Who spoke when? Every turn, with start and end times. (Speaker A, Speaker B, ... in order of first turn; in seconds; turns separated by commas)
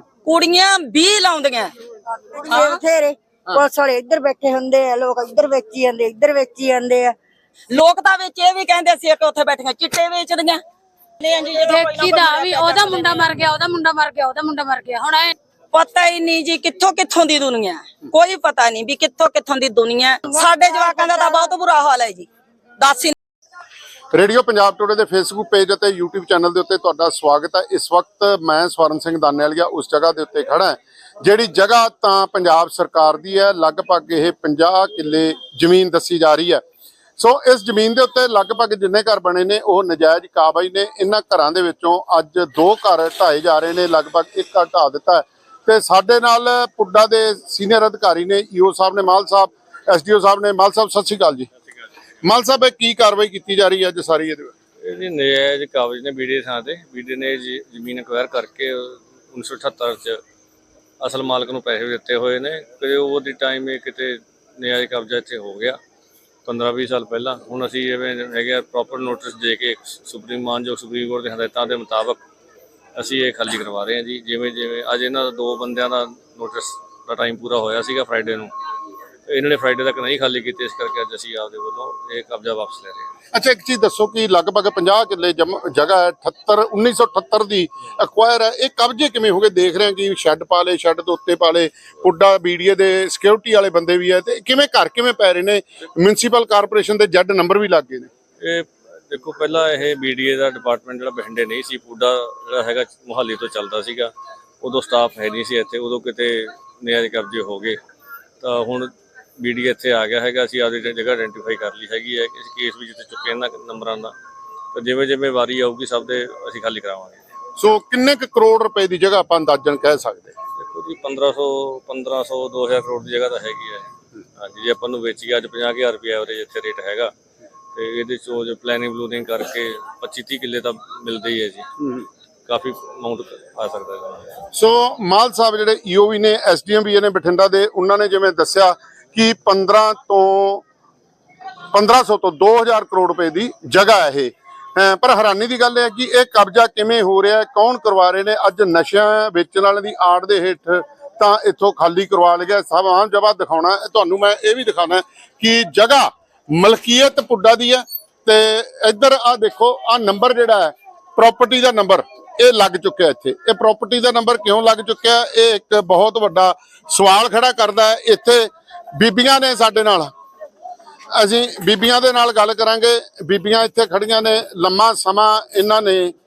Speaker A: 0.2-1.7, Speaker B: 2.3-7.1, Speaker A: 7.7-10.6, Speaker A: 11.2-13.3, Speaker C: 11.6-15.3, Speaker A: 15.7-22.3, Speaker B: 20.3-21.5, Speaker A: 22.8-23.1, Speaker D: 24.1-36.6, Speaker D: 37.2-51.5, Speaker D: 52.2-54.4, Speaker E: 54.8-60.2, Speaker E: 61.0-65.8, Speaker E: 66.5-72.2, Speaker E: 73.0-78.5, Speaker E: 79.3-83.1, Speaker D: 83.3-98.1, Speaker E: 98.4-107.8, Speaker E: 108.4-114.1, Speaker E: 114.7-117.2, Speaker D: 117.6-120.3, Speaker E: 120.6-123.9, Speaker E: 124.4-127.1, Speaker E: 127.7-131.7, Speaker E: 132.5-134.5, Speaker D: 134.5-140.6, Speaker D: 141.7-170.1, Speaker D: 171.1-176.1